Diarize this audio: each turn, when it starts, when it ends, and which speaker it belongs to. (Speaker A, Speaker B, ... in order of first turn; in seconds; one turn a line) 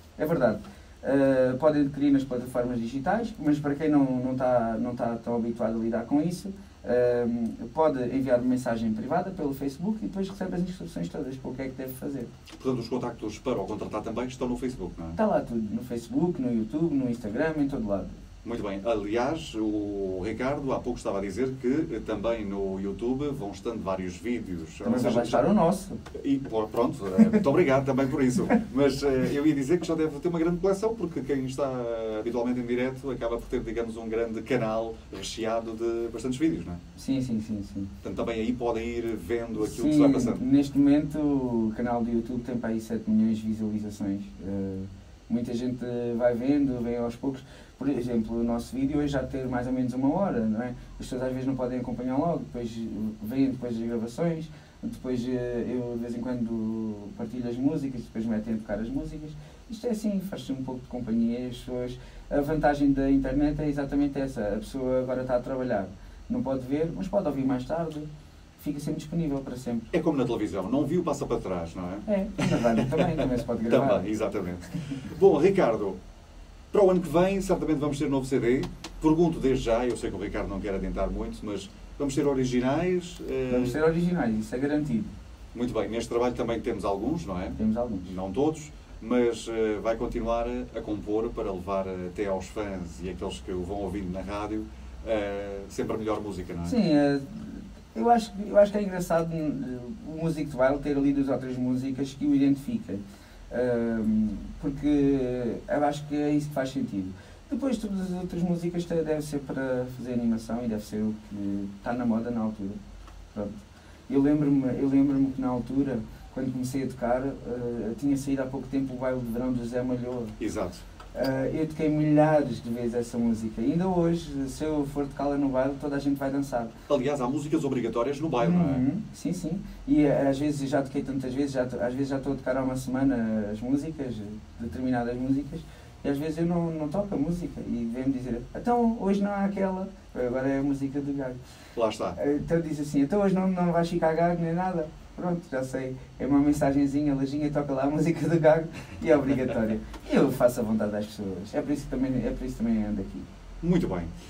Speaker A: 0.2-12.3
Speaker B: 12.5-15.2
Speaker A: 15.2-18.2
Speaker B: 18.4-25.4
Speaker A: 24.8-26.0
Speaker B: 26.1-36.8
Speaker A: 37.0-37.9
Speaker B: 38.0-40.4
Speaker A: 39.6-68.1
Speaker A: 68.6-69.9
Speaker B: 69.9-76.0
Speaker A: 72.1-74.1
Speaker B: 76.7-83.8
Speaker A: 83.5-85.1
Speaker B: 85.5-96.7
Speaker A: 87.6-88.1
Speaker A: 96.6-112.8
Speaker A: 114.1-120.4
Speaker B: 120.4-120.8
Speaker A: 121.1-126.7
Speaker B: 126.9-128.8
Speaker A: 128.4-141.4
Speaker B: 141.8-142.2
Speaker A: 142.2-153.3
Speaker B: 153.6-154.1